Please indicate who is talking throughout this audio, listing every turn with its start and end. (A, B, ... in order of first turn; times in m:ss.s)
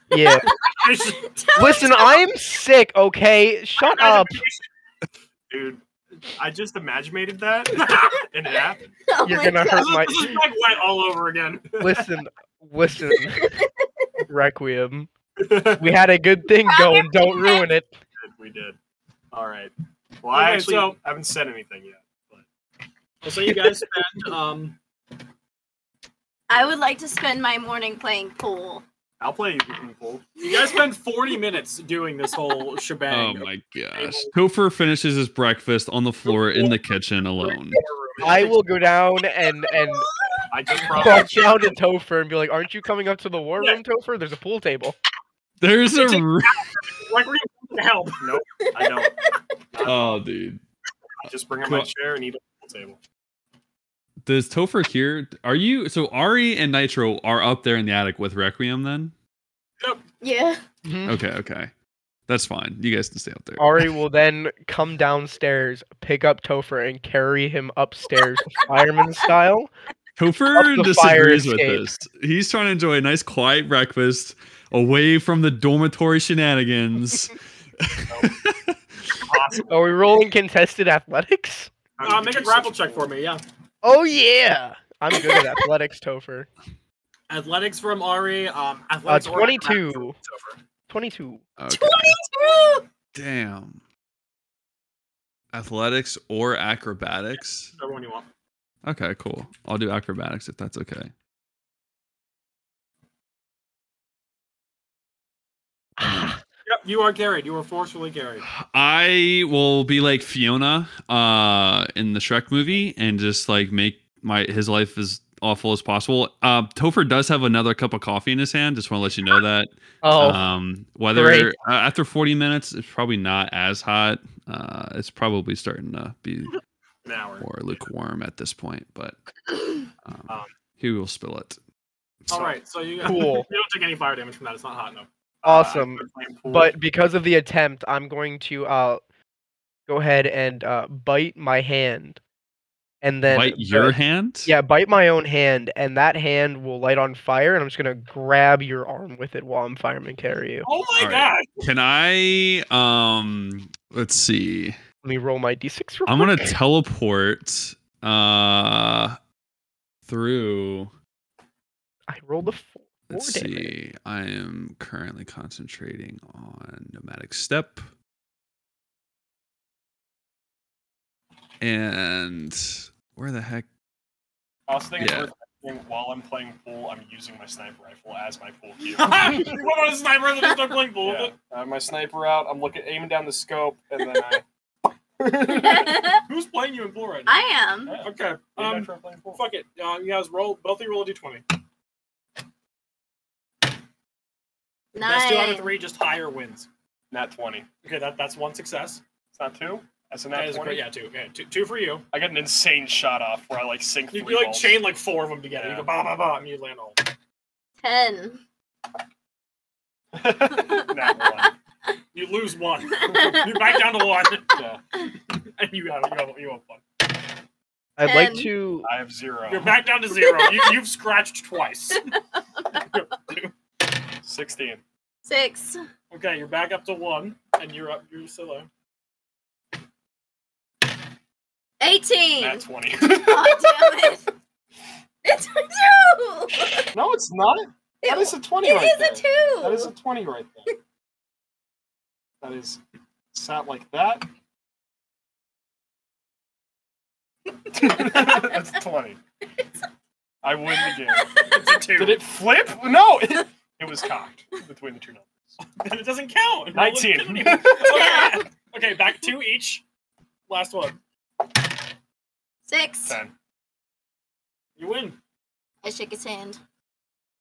0:00.1-0:00.5 A
0:00.1-0:02.3 B
0:00.7-0:01.3 C
0:01.6-0:04.4 A
0:03.8-0:04.7 C
0:05.5-0:08.9 D
0:07.8-0:08.2 C
0:09.1-0:10.0 B
0:09.2-0:10.4 A
0:09.8-0:11.7 C
0:11.8-0:13.6 A
0:13.2-0:14.0 B
0:14.3-0:15.1 A
0:15.4-0:16.0 D
0:15.8-0:17.9 A
0:16.6-0:17.7 B
0:18.2-0:18.8 D
0:19.3-0:22.4 D
0:20.3-0:21.0 C
0:23.2-0:24.8 C
0:26.5-0:28.8 B
0:29.2-0:30.2 D
0:30.4-0:30.8 B
0:30.4-0:34.3 C
0:33.1-0:37.8 E
0:36.3-0:36.7 C
0:37.4-0:38.6 C
0:38.2-0:40.1 A
0:39.7-0:41.2 B
0:40.5-0:41.8 D
0:40.9-0:45.0 A
0:45.6-0:46.7 E
0:45.9-0:48.3 C
0:48.2-0:49.2 D
0:48.8-0:49.5 B
0:49.7-0:50.2 D
0:49.8-0:50.6 E
0:51.2-0:53.0 D
0:51.6-0:51.9 E
0:54.2-0:59.1 E
1:00.2-1:00.6 B
1:00.8-1:01.2 A
1:01.0-1:01.7 E
1:02.3-1:03.9 E
1:03.6-1:09.7 A
1:10.2-1:19.2 E
1:10.5-1:11.9 A
1:18.1-1:18.3 D
1:19.2-1:19.9 D
1:19.7-1:21.7 A
1:22.0-1:23.1 D
1:22.0-1:23.4 C
1:23.8-1:26.5 A
1:25.2-1:25.5 B
1:27.3-1:30.6 C
1:29.1-1:30.2 A
1:30.9-1:31.4 A
1:31.6-1:32.2 E
1:31.7-1:32.8 B
1:33.1-1:33.8 E
1:35.5-1:37.8 E
1:37.3-1:38.3 C
1:38.8-1:41.1 E
1:46.0-1:46.4 A
1:46.0-1:46.4 E
1:46.7-1:48.5 C
1:48.5-2:06.6 E
2:00.0-2:00.4 A
2:01.1-2:01.5 A
2:07.0-2:07.9 D
2:07.4-2:11.6 E
2:12.3-2:12.6 D
2:12.3-2:15.1 C
2:13.0-2:13.5 A
2:15.4-2:16.8 D
2:15.4-2:19.0 A
2:19.9-2:22.2 A
2:23.0-2:30.7 A
2:23.3-2:24.5 E
2:30.6-2:31.6 C
2:31.0-2:34.8 E
2:35.0-2:36.6 A
2:36.1-2:39.2 E
2:40.1-2:40.9 E
2:42.1-2:43.7 A
2:43.1-2:47.9 E
2:51.6-2:53.7 E
2:54.7-2:59.6 D
2:55.0-2:55.3 E
2:59.0-3:01.3 C
3:01.0-3:04.4 D
3:05.2-3:06.0 D
3:05.4-3:06.2 B
3:06.3-3:07.4 C
3:07.3-3:08.0 B
3:07.9-3:09.4 D
3:08.0-3:11.5 C
3:14.9-3:15.7 B
3:15.0-3:16.7 C
3:17.1-3:17.7 D
3:17.8-3:19.0 C
3:19.3-3:20.8 D
3:20.3-3:22.1 C
3:22.1-3:24.9 D
3:24.1-3:27.1 C
3:25.6-3:25.9 D
3:27.8-3:28.4 B
3:30.1-3:31.5 D
3:30.5-3:31.5 B
3:32.1-3:34.5 C
3:32.9-3:33.9 B
3:34.5-3:34.8 D
3:35.5-3:37.0 C
3:38.0-3:38.9 A
3:38.0-3:38.5 B
3:38.8-3:39.8 D
3:39.5-3:42.2 C
3:40.2-3:40.7 B
3:42.1-3:43.0 B
3:42.7-3:43.5 C
3:44.2-3:44.8 D
3:45.2-3:45.8 B
3:46.1-3:48.7 C
3:51.8-3:54.3 B
3:52.4-3:54.0 D
3:55.2-3:56.9 B
3:56.9-4:00.7 D
3:58.0-3:59.9 B
4:02.4-4:02.8 D
4:03.3-4:04.3 D
4:07.7-4:09.2 D
4:07.8-4:08.5 B
4:10.4-4:15.6 D
4:10.8-4:11.6 B
4:11.4-4:12.2 C
4:15.8-4:19.8 C
4:16.7-4:18.0 D
4:17.8-4:18.5 B
4:20.5-4:21.0 C
4:22.7-4:23.2 B
4:23.1-4:23.3 D
4:24.8-4:25.2 C
4:25.8-4:26.6 B